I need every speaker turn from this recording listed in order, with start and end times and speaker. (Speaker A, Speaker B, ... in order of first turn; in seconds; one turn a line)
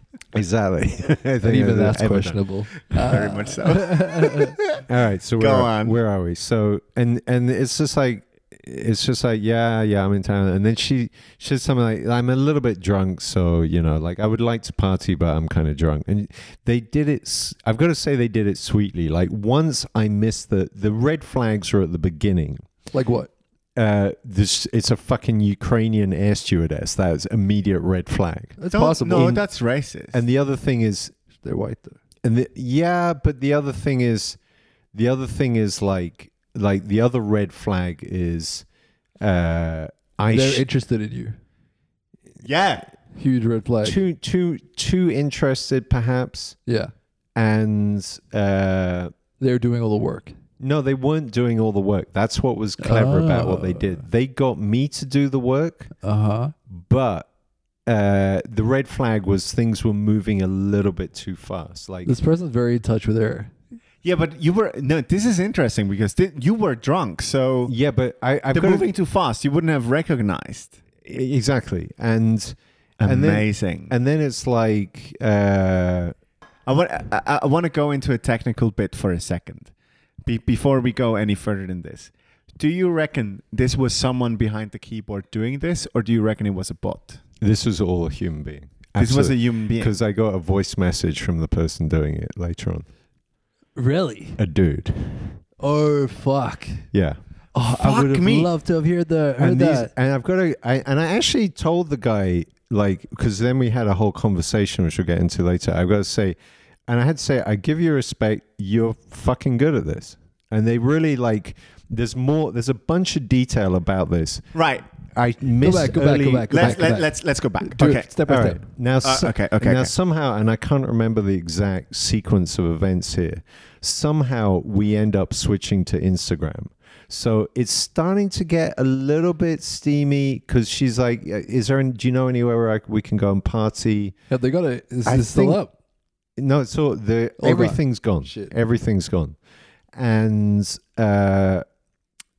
Speaker A: 0.3-2.8
Speaker B: 1.4-4.6
Speaker C: 3.0-4.8
Speaker A: 4.8-22.7
Speaker C: 5.4-6.0
Speaker B: 22.9-23.3
Speaker A: 23.8-29.4
Speaker B: 28.6-29.4
Speaker C: 28.7-30.2
Speaker A: 30.1-31.1
Speaker B: 31.4-32.0
Speaker A: 32.2-34.4
Speaker A: 34.9-38.7
Speaker A: 39.2-40.6
Speaker B: 40.3-41.4
Speaker C: 42.4-42.9
Speaker B: 43.1-44.0
Speaker A: 43.8-46.6
Speaker B: 46.7-46.9
Speaker A: 47.4-49.1
Speaker B: 49.4-50.3
Speaker A: 50.6-55.9
Speaker B: 52.8-54.0
Speaker B: 56.0-56.5
Speaker A: 56.7-57.3
Speaker A: 57.9-62.1
Speaker B: 62.0-63.5
Speaker C: 64.0-67.7
Speaker A: 67.7-68.9
Speaker C: 68.5-70.8
Speaker A: 71.0-76.2
Speaker C: 73.0-73.9
Speaker C: 76.7-79.7
Speaker C: 80.2-87.2
Speaker A: 87.4-92.9
Speaker C: 89.0-89.9
Speaker B: 93.8-94.4
Speaker A: 94.4-95.4
Speaker B: 95.6-96.9
Speaker A: 96.9-97.2
Speaker B: 97.5-99.9
Speaker C: 97.7-98.5
Speaker A: 99.4-106.4
Speaker A: 106.9-114.5
Speaker C: 114.5-114.9
Speaker A: 115.1-116.9
Speaker B: 115.6-118.6
Speaker C: 116.5-118.1
Speaker A: 118.3-134.2
Speaker C: 119.0-119.9
Speaker B: 134.3-135.7
Speaker A: 135.1-135.6
Speaker A: 136.4-139.4
Speaker B: 137.4-138.5
Speaker A: 139.9-141.7